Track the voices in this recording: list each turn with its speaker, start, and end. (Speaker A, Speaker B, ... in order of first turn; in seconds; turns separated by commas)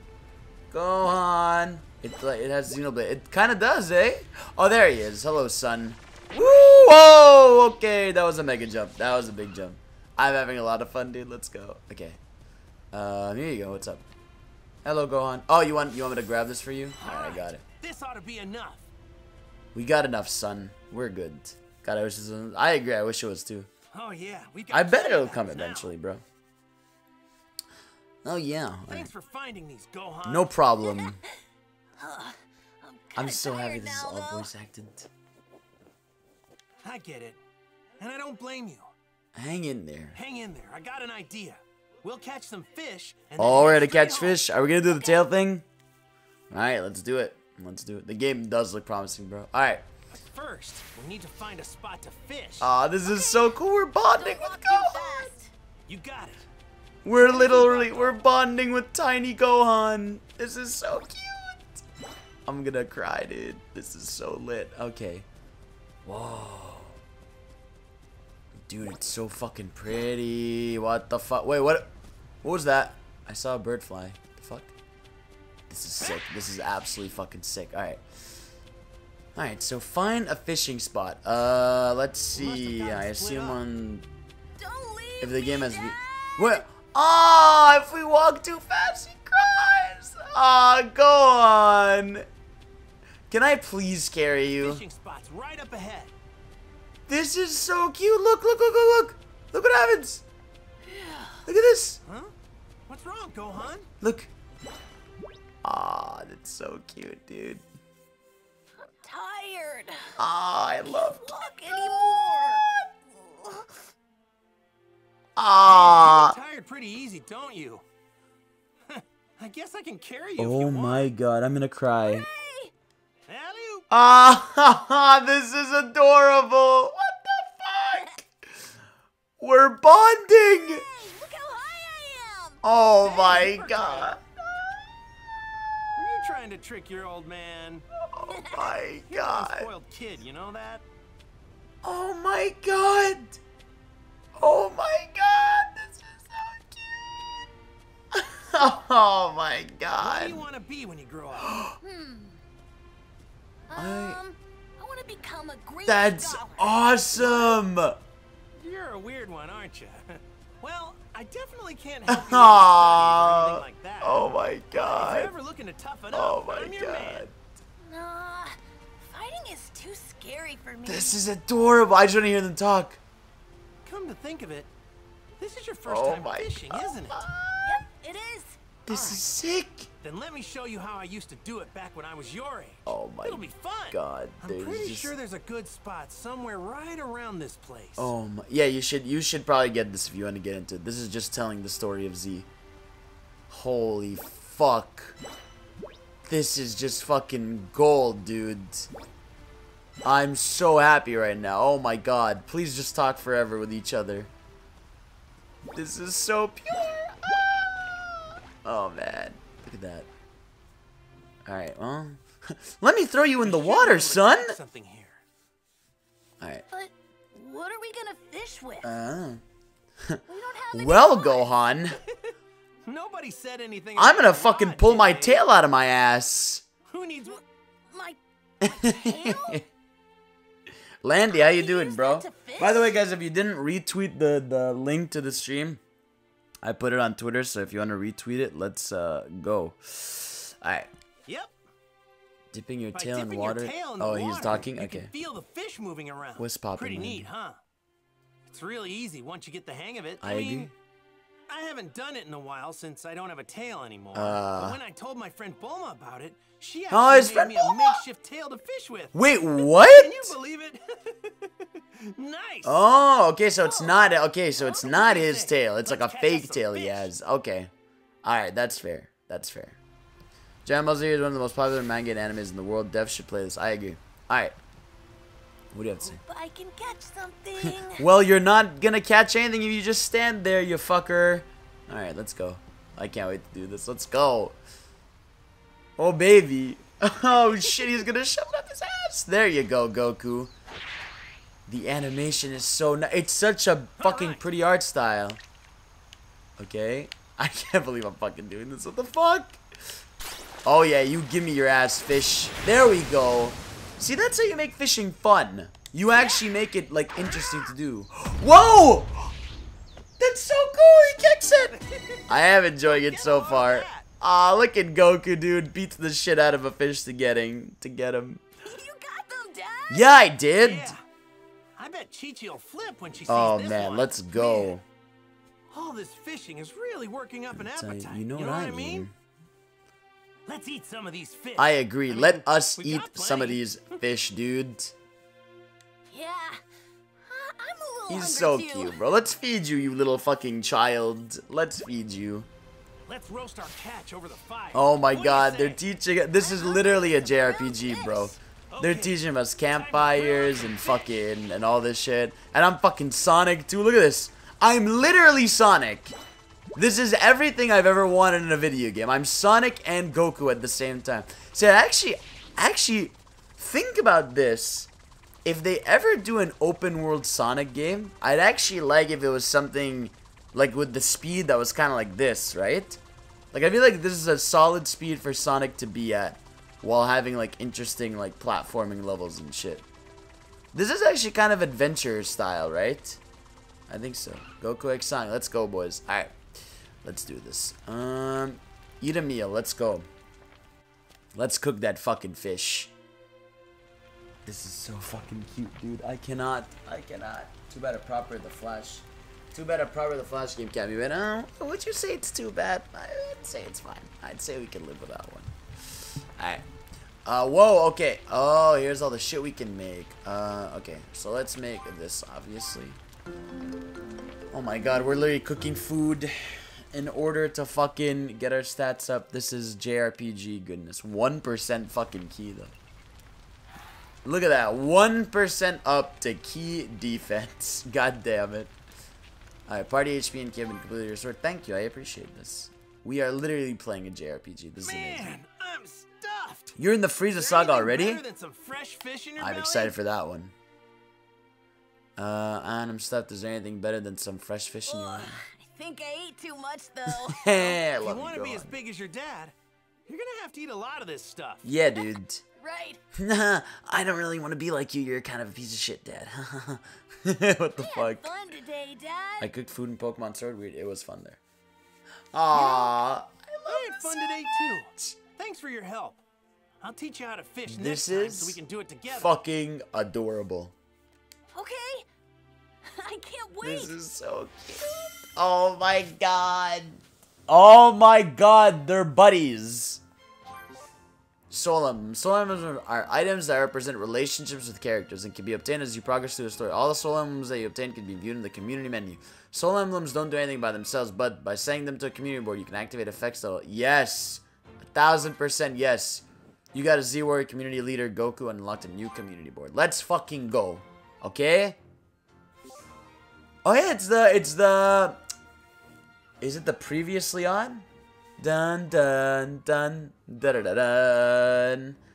Speaker A: 0.7-12.2, Speaker A: 12.9-14.1, Speaker A: 14.8-17.6, Speaker B: 17.0-18.8, Speaker A: 19.7-23.7, Speaker B: 23.9-25.9, Speaker A: 24.7-26.2, Speaker A: 28.2-29.1, Speaker B: 28.9-30.5, Speaker A: 30.2-31.2, Speaker C: 30.8-31.3, Speaker C: 32.0-34.5, Speaker A: 33.1-35.1, Speaker B: 36.8-37.4, Speaker B: 38.0-38.9, Speaker A: 39.3-40.1, Speaker B: 40.1-44.4, Speaker A: 43.4-45.6, Speaker C: 44.9-45.2, Speaker A: 46.5-49.9, Speaker B: 50.1-52.7, Speaker A: 52.6-55.3, Speaker C: 53.0-55.5, Speaker B: 55.9-56.5, Speaker A: 57.0-61.7, Speaker B: 57.2-58.2, Speaker A: 62.5-65.3, Speaker A: 66.0-67.0, Speaker A: 68.6-71.9, Speaker A: 72.4-74.7, Speaker A: 75.7-78.0, Speaker A: 79.3-84.0, Speaker B: 82.3-83.6, Speaker C: 84.6-86.6, Speaker A: 85.2-92.2, Speaker A: 93.3-94.8, Speaker B: 94.6-96.1, Speaker A: 97.1-100.2, Speaker C: 100.8-101.4, Speaker A: 101.5-102.0, Speaker B: 102.0-102.3, Speaker B: 102.9-103.9, Speaker A: 104.0-104.3, Speaker A: 105.6-107.6, Speaker C: 108.8-110.2, Speaker A: 110.2-111.4, Speaker C: 110.9-113.7, Speaker A: 115.3-116.4, Speaker B: 115.6-117.8, Speaker B: 118.9-121.1, Speaker A: 120.4-122.3, Speaker C: 122.1-122.7, Speaker B: 123.3-123.8, Speaker A: 123.9-128.3, Speaker C: 127.9-128.2, Speaker A: 129.4-130.8, Speaker C: 130.5-132.6, Speaker A: 132.6-134.2, Speaker B: 133.0-134.2, Speaker B: 135.9-137.8, Speaker A: 138.0-139.7, Speaker C: 138.3-138.7, Speaker B: 139.1-140.8, Speaker A: 141.8-143.4, Speaker A: 144.3-146.8, Speaker A: 148.1-150.4, Speaker B: 150.0-151.6, Speaker A: 151.4-151.8, Speaker C: 151.8-152.4, Speaker C: 153.7-157.6, Speaker A: 153.7-154.2, Speaker A: 155.8-158.0, Speaker B: 158.6-167.2, Speaker A: 162.1-165.3, Speaker A: 166.1-167.3, Speaker C: 167.8-171.2, Speaker A: 170.8-173.0, Speaker B: 173.8-174.7, Speaker B: 175.4-177.3, Speaker A: 175.9-177.8, Speaker C: 177.6-178.7, Speaker A: 178.8-179.9, Speaker B: 178.9-179.2, Speaker B: 180.0-188.1, Speaker A: 182.8-185.1, Speaker A: 188.0-192.5, Speaker A: 193.5-195.2, Speaker A: 196.2-198.9, Speaker A: 200.0-204.3, Speaker A: 205.7-210.1, Speaker A: 211.4-214.6, Speaker B: 213.4-215.2, Speaker A: 216.4-216.7, Speaker C: 216.7-218.9, Speaker A: 218.8-219.4, Speaker C: 220.3-221.5, Speaker A: 220.7-222.0, Speaker B: 222.8-225.4, Speaker A: 224.0-226.6, Speaker B: 226.9-227.4, Speaker C: 227.9-229.6, Speaker A: 228.6-229.6, Speaker A: 231.0-235.8, Speaker C: 231.3-232.9, Speaker A: 236.6-240.9, Speaker B: 241.2-241.5, Speaker A: 242.5-245.1, Speaker B: 242.9-247.6, Speaker A: 246.4-247.3, Speaker B: 248.5-250.7, Speaker A: 250.2-250.7, Speaker B: 251.5-262.8, Speaker A: 254.1-254.8, Speaker A: 256.9-258.0, Speaker A: 259.1-260.3, Speaker A: 262.6-267.7, Speaker B: 264.6-267.1, Speaker A: 268.2-269.8, Speaker A: 270.6-274.6, Speaker A: 275.7-276.2, Speaker C: 276.0-278.0, Speaker A: 277.6-284.6, Speaker A: 286.0-290.5, Speaker A: 291.7-295.4, Speaker B: 294.0-294.4, Speaker A: 296.6-299.6, Speaker A: 300.6-309.3, Speaker A: 310.2-318.4, Speaker B: 311.7-312.2, Speaker B: 312.8-314.1, Speaker C: 318.6-320.1, Speaker A: 319.9-320.9, Speaker B: 320.6-321.0, Speaker B: 321.8-324.7, Speaker A: 323.3-324.8, Speaker B: 325.7-329.1, Speaker A: 327.5-329.1, Speaker B: 330.5-333.6, Speaker A: 331.6-334.9, Speaker C: 336.1-336.6, Speaker C: 337.2-339.0, Speaker A: 338.1-342.5, Speaker B: 343.1-345.8, Speaker A: 344.7-356.1, Speaker C: 346.4-348.4, Speaker B: 348.7-351.1, Speaker A: 356.7-364.9, Speaker A: 365.4-373.0, Speaker A: 373.5-379.9, Speaker A: 380.7-383.2, Speaker A: 383.9-386.4, Speaker A: 387.0-390.1, Speaker A: 391.3-392.9, Speaker A: 394.4-406.6, Speaker A: 407.2-413.0, Speaker A: 414.5-422.7, Speaker A: 424.2-428.7, Speaker A: 429.7-435.3, Speaker B: 434.8-436.7, Speaker A: 436.8-438.2, Speaker B: 437.4-439.9, Speaker A: 439.4-440.5, Speaker A: 442.2-445.4, Speaker C: 444.9-447.8, Speaker A: 447.1-448.8, Speaker B: 448.0-449.5, Speaker B: 450.1-451.6, Speaker A: 451.6-452.4, Speaker C: 451.9-453.0, Speaker A: 453.1-458.3, Speaker C: 457.8-459.5, Speaker A: 459.4-461.4, Speaker A: 462.3-465.1, Speaker B: 462.5-462.9, Speaker B: 463.7-466.2, Speaker B: 466.8-469.3, Speaker A: 467.7-468.6, Speaker A: 469.1-470.7, Speaker C: 471.5-472.1, Speaker C: 472.8-473.9, Speaker A: 473.6-480.0, Speaker A: 481.5-501.8, Speaker A: 503.6-505.2, Speaker A: 506.4-507.9, Speaker A: 508.4-512.0